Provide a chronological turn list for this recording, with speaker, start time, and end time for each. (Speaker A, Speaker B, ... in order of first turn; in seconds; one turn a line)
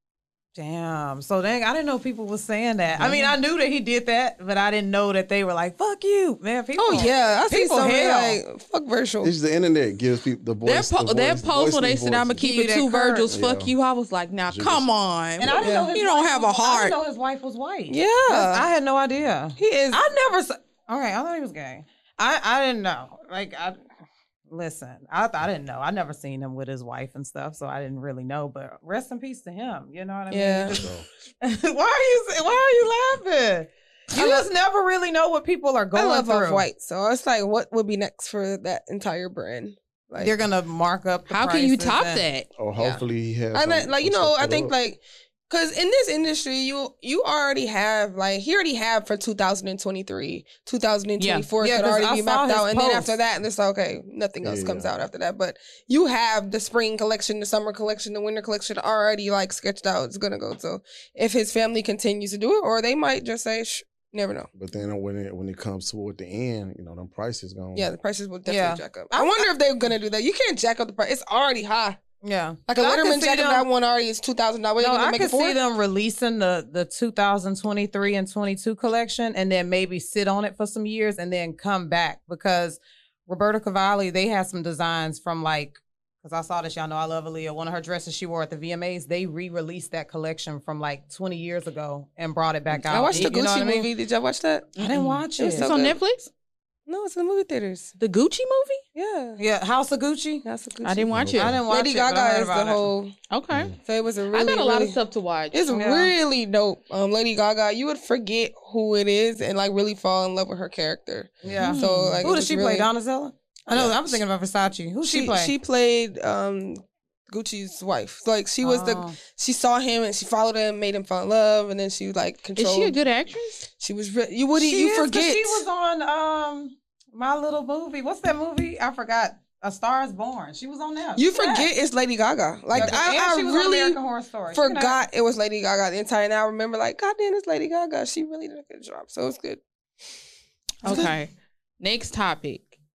Speaker A: 0.5-8.4
Speaker B: 3.0-3.3
Speaker C: 6.8-9.3
Speaker D: 9.2-12.4
Speaker B: 10.6-16.9
Speaker A: 12.4-13.3
Speaker D: 13.3-13.7
Speaker D: 14.5-14.9
Speaker A: 15.4-23.8
Speaker C: 15.6-15.9
Speaker C: 17.9-18.7
Speaker C: 19.6-20.0
Speaker A: 24.5-36.6
Speaker C: 30.3-30.8
Speaker D: 30.7-31.0
Speaker C: 34.1-34.4
Speaker C: 35.9-40.4
Speaker A: 40.2-42.2
Speaker B: 41.3-42.5
Speaker D: 42.5-44.7
Speaker C: 42.8-43.0
Speaker C: 43.5-64.5
Speaker B: 51.2-51.5
Speaker A: 51.6-53.1
Speaker D: 54.4-54.9
Speaker D: 64.5-67.9
Speaker C: 67.7-72.0
Speaker A: 68.5-69.5
Speaker A: 72.2-73.7
Speaker C: 72.7-75.6
Speaker A: 74.8-93.9
Speaker C: 92.9-94.7
Speaker B: 94.8-96.3
Speaker A: 94.8-95.7
Speaker C: 95.4-96.0
Speaker C: 96.9-97.9
Speaker B: 98.0-98.8
Speaker C: 98.9-99.4
Speaker A: 99.4-100.4
Speaker C: 100.4-101.1
Speaker B: 100.8-101.6
Speaker D: 101.1-101.6
Speaker A: 101.3-102.9
Speaker C: 101.7-103.1
Speaker B: 103.3-103.7
Speaker D: 103.5-103.8
Speaker C: 103.8-105.0
Speaker B: 104.3-105.6
Speaker C: 105.5-112.9
Speaker A: 105.7-106.1
Speaker A: 111.4-115.5
Speaker B: 111.6-112.2
Speaker C: 115.0-123.0
Speaker A: 118.6-119.2
Speaker B: 122.6-123.6
Speaker C: 123.8-125.6
Speaker A: 124.6-131.7
Speaker C: 131.2-134.0
Speaker D: 132.7-133.0
Speaker A: 132.7-135.0
Speaker C: 134.5-139.6
Speaker C: 140.8-141.1
Speaker B: 140.8-142.7